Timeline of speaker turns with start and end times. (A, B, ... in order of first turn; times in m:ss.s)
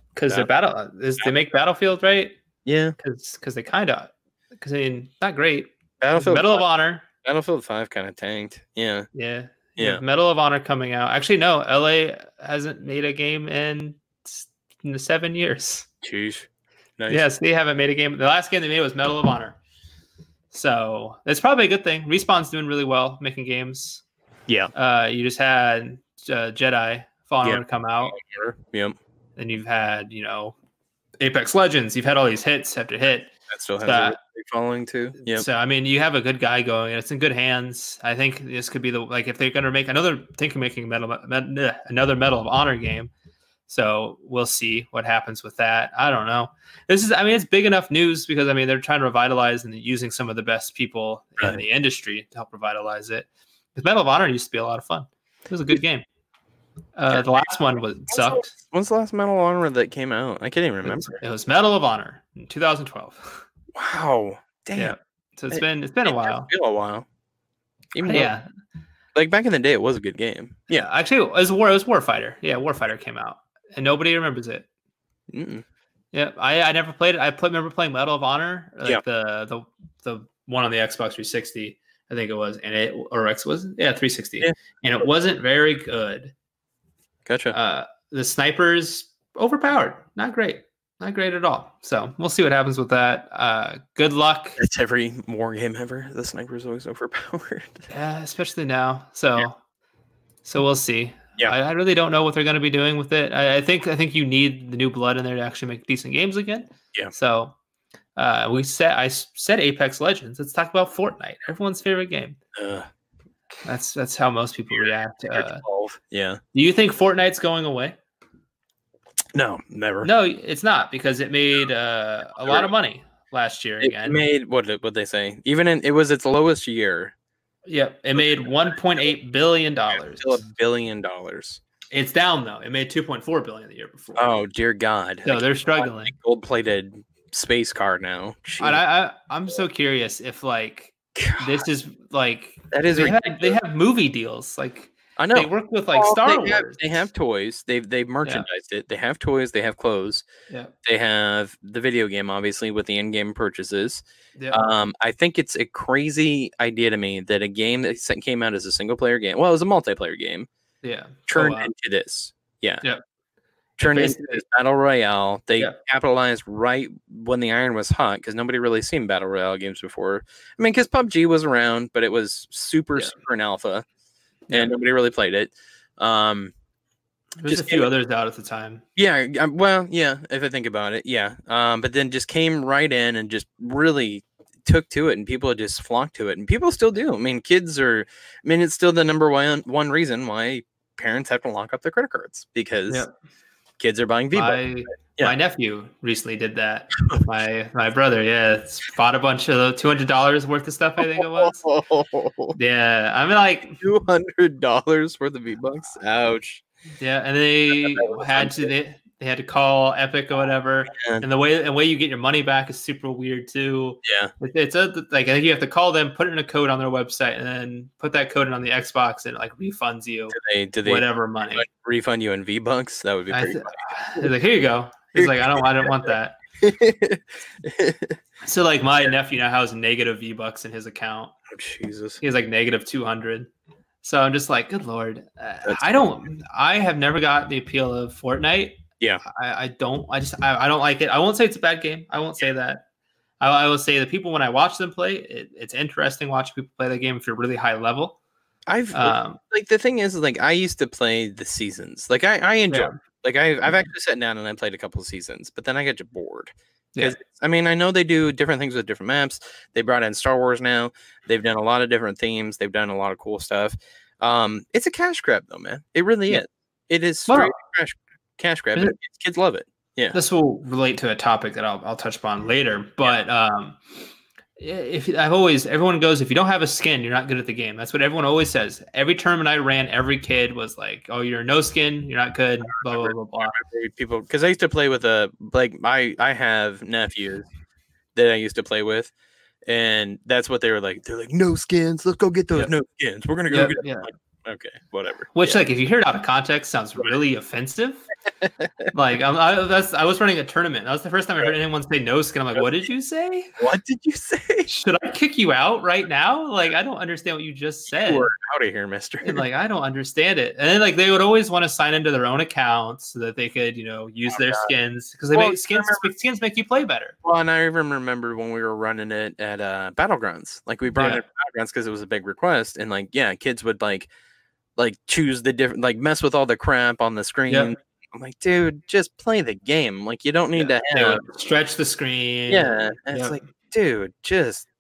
0:00.2-0:02.4 A
0:02.6-0:03.0 B
0:03.0-0:07.0 A
0:06.0-0:06.6 B
0:07.2-0:09.1 B
0:09.1-0:15.9 A
0:16.0-0:17.2 B
0:17.1-0:19.6 A
0:20.5-0:24.0 A
0:24.8-0:28.2 A
0:27.4-0:29.0 B
0:29.4-0:30.6 A
0:31.2-0:34.2 A
0:33.5-0:35.5 B
0:35.2-0:43.1 A
0:43.7-0:56.0 A
0:57.0-0:58.5 A
0:58.1-1:01.2 B
1:00.8-1:03.4 A
1:03.7-1:05.0 B
1:04.8-1:06.5 A
1:05.5-1:07.1 B
1:07.9-1:08.3 B
1:08.0-1:08.4 A
1:09.2-1:10.9 B
1:10.7-1:14.7 A
1:15.3-1:15.6 B
1:16.1-1:26.3 A
1:27.3-1:27.6 B
1:27.5-1:34.6 A
1:34.6-1:37.9 B
1:37.9-1:39.6 A
1:40.4-1:47.5 A
1:48.2-1:52.4 A
1:52.6-1:52.9 B
1:53.6-1:55.6 A
1:55.3-1:56.4 B
1:56.5-1:58.0 A
1:59.3-2:00.1 B
2:00.0-2:04.2 A
2:03.8-2:07.1 B
2:07.7-2:10.4 A
2:08.2-2:08.5 B
2:10.2-2:11.6 B
2:11.9-2:14.3 A
2:14.2-2:18.8 B
2:15.2-2:16.1 A
2:18.6-2:26.8 A
2:21.2-2:21.6 B
2:22.7-2:23.6 B
2:25.2-2:30.2 B
2:30.8-2:40.5 B
2:34.4-2:34.7 A
2:40.8-2:41.7 A
2:41.3-2:42.8 B
2:43.8-2:53.8 B
2:43.8-2:44.4 A
2:54.5-2:54.7 A
2:54.5-2:56.5 B
2:57.4-2:58.8 A
2:57.5-2:57.9 B
2:59.0-3:13.0 B
3:13.8-3:14.6 B
3:14.3-3:21.6 A
3:21.0-3:22.6 B
3:22.6-3:23.8 A
3:23.8-3:26.6 B
3:27.0-3:41.7 A
3:27.8-3:28.7 B
3:31.0-3:31.2 B
3:34.0-3:34.3 B
3:40.3-3:44.3 B
3:43.3-3:46.4 A
3:45.2-3:45.9 B
3:46.6-3:48.2 B
3:48.4-3:51.4 A
3:51.5-3:52.2 B
3:52.2-3:53.5 A
3:54.0-4:02.8 A
4:03.4-4:08.2 A
4:08.7-4:30.2 B
4:08.9-4:09.4 A
4:12.7-4:13.0 A
4:27.3-4:27.5 A
4:30.1-4:33.8 A
4:34.6-4:43.6 A
4:42.8-4:47.5 B
4:48.2-4:49.1 B
4:49.7-4:55.6 B
4:53.5-4:54.1 A
4:55.4-4:58.0 A
4:58.9-5:03.6 A
5:03.6-5:04.7 B
5:04.7-5:08.3 A
5:07.9-5:09.4 B
5:09.2-5:17.2 A
5:14.3-5:14.7 B
5:15.3-5:16.1 B
5:17.2-5:24.1 B
5:20.9-5:21.2 A
5:24.8-5:31.2 B
5:30.6-5:33.4 A
5:32.5-5:34.7 B